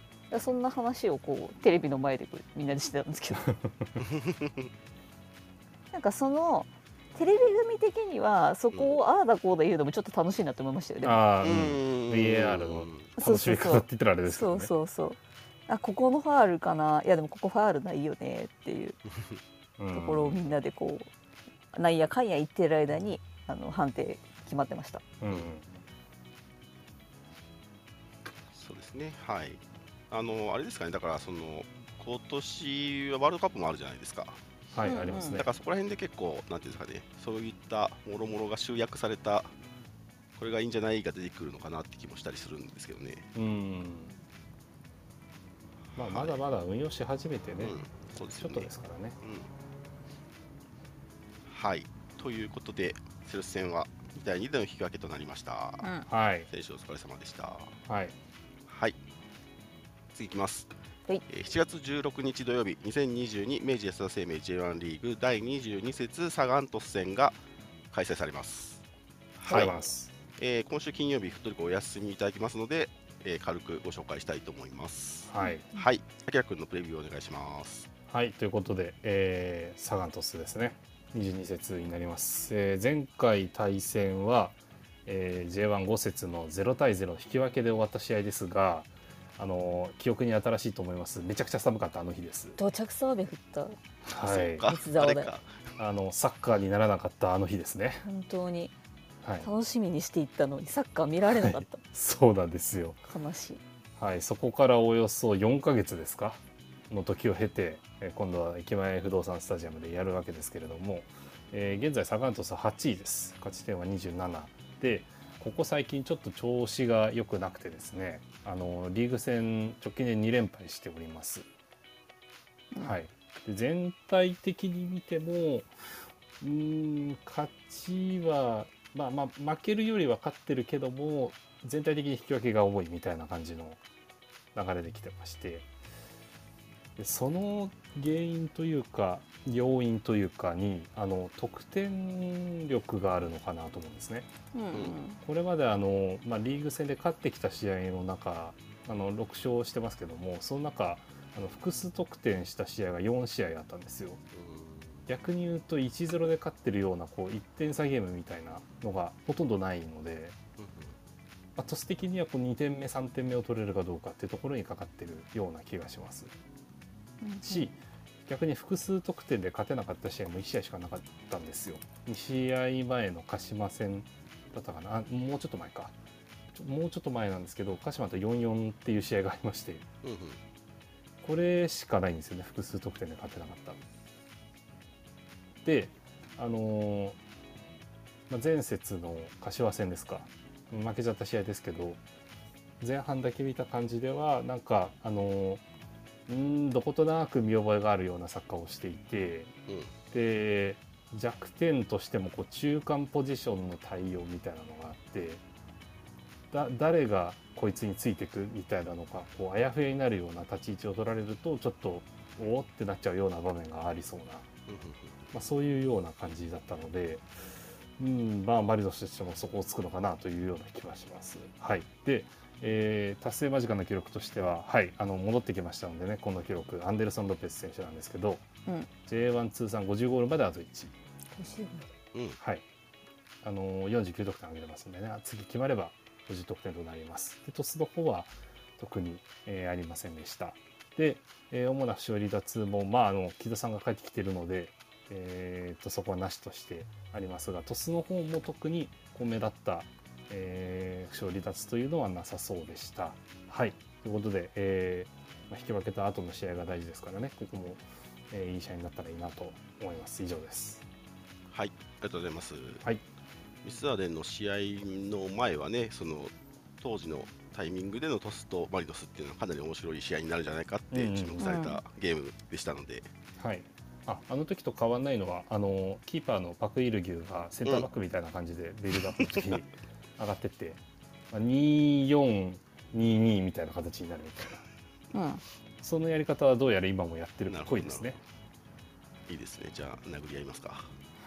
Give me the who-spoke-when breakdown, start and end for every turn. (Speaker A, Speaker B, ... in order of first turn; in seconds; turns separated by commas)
Speaker A: 0.3-3.5, Speaker B: 3.4-4.0, Speaker C: 4.0-4.7, Speaker A: 5.9-11.2, Speaker B: 11.0-14.7, Speaker C: 11.4-13.1, Speaker A: 13.2-19.0, Speaker B: 19.8-20.4, Speaker A: 19.9-21.1, Speaker A: 21.7-25.0, Speaker B: 25.2-25.7, Speaker C: 28.5-34.4, Speaker B: 34.7-35.5, Speaker A: 34.9-35.4, Speaker C: 35.3-39.5, Speaker C: 40.4-43.3, Speaker B: 43.4-44.2, Speaker C: 45.9-46.4, Speaker B: 46.0-47.8, Speaker C: 47.6-48.7, Speaker B: 48.3-49.2, Speaker C: 49.2-49.5, Speaker C: 51.5-55.9, Speaker B: 56.1-56.5, Speaker C: 56.5-57.8, Speaker B: 57.9-58.1, Speaker C: 58.7-59.0, Speaker C: 60.1-60.7, Speaker C: 61.3-67.4, Speaker C: 67.9-68.8, Speaker C: 69.4-69.8, Speaker B: 69.5-70.1, Speaker C: 70.4-77.9, Speaker B: 75.3-75.7, Speaker B: 78.1-92.6, Speaker A: 92.6-93.8, Speaker B: 94.1-94.7, Speaker C: 94.2-95.6, Speaker A: 94.6-95.3, Speaker B: 95.8-98.0, Speaker A: 98.0-98.7, Speaker B: 99.2-99.5, Speaker A: 99.4-101.8, Speaker B: 101.3-103.0, Speaker A: 103.0-103.6, Speaker B: 104.0-121.5, Speaker B: 122.8-125.7, Speaker B: 126.4-133.8, Speaker B: 134.6-135.7, Speaker B: 137.0-144.3, Speaker A: 144.5-145.2, Speaker B: 145.2-154.2, Speaker C: 154.3-155.1, Speaker B: 155.1-160.4, Speaker C: 160.6-160.9, Speaker B: 161.6-166.3, Speaker A: 167.2-167.7, Speaker B: 167.4-175.9, Speaker B: 176.5-179.9, Speaker C: 180.0-180.4, Speaker B: 181.2-183.8, Speaker B: 185.6-187.2, Speaker B: 188.3-192.0, Speaker B: 192.8-195.6, Speaker B: 196.3-199.5, Speaker C: 199.7-199.9, Speaker B: 200.1-205.4, Speaker B: 206.5-214.5, Speaker C: 214.7-215.3, Speaker B: 215.3-228.4, Speaker B: 229.1-230.9, Speaker A: 231.3-231.9, Speaker C: 232.1-232.4, Speaker B: 233.4-260.8, Speaker C: 261.5-262.8, Speaker C: 263.6-273.1, Speaker B: 270.9-271.5, Speaker A: 271.4-271.8, Speaker B: 273.4-280.8, Speaker C: 279.2-279.6, Speaker B: 281.3-284.6, Speaker A: 285.1-285.4, Speaker B: 285.8-288.2, Speaker C: 287.5-288.2, Speaker C: 289.3-290.9